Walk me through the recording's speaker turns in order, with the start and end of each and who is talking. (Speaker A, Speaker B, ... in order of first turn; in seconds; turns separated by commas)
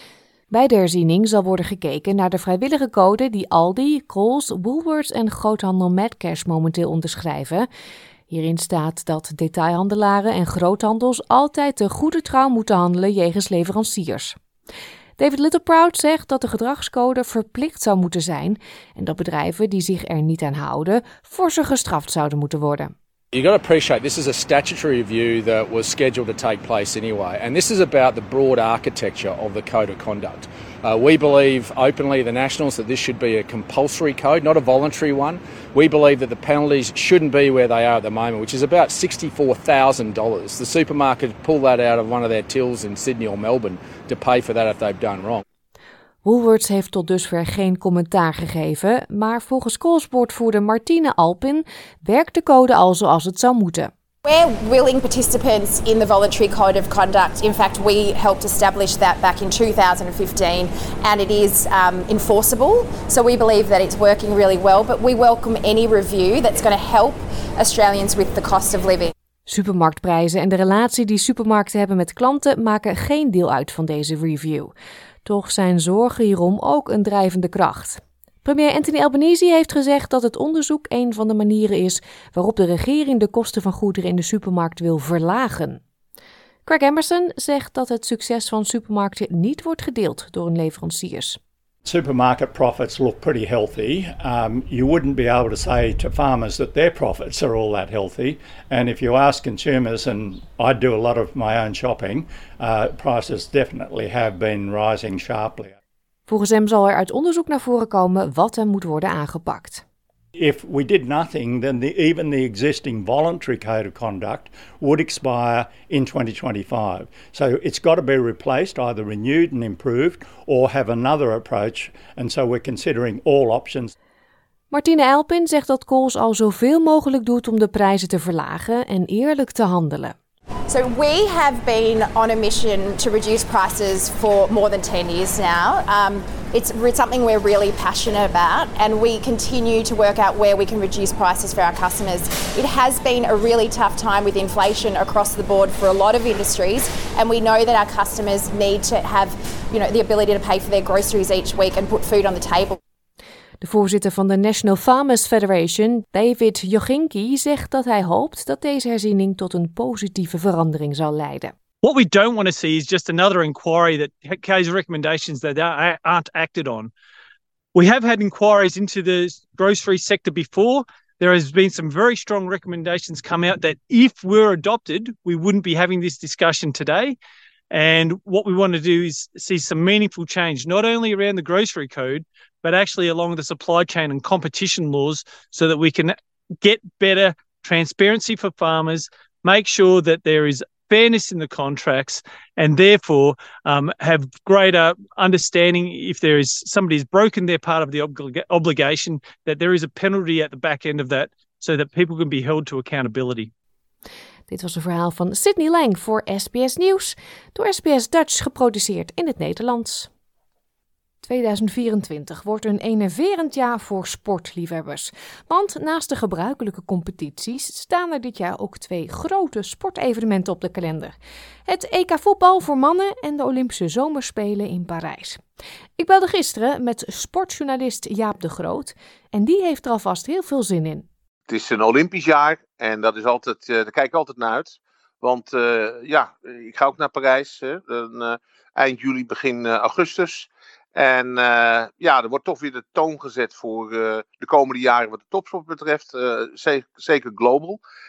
Speaker A: 0.5-7.7, Speaker A: 8.3-14.4, Speaker A: 15.2-22.9, Speaker B: 23.3-45.4, Speaker A: 46.2-53.9, Speaker C: 54.2-69.1, Speaker A: 69.5-74.7, Speaker A: 75.2-85.8, Speaker A: 86.7-91.4, Speaker D: 91.8-105.8, Speaker A: 106.3-109.8, Speaker D: 110.3-123.9, Speaker A: 124.7-130.2, Speaker C: 130.7-152.8, Speaker A: 153.6-161.6, Speaker E: 161.8-166.9, Speaker E: 167.8-177.2, Speaker E: 177.7-203.5, Speaker A: 204.5-210.1, Speaker A: 211.2-221.2, Speaker A: 221.7-225.4, Speaker A: 226.0-231.1, Speaker F: 231.5-247.8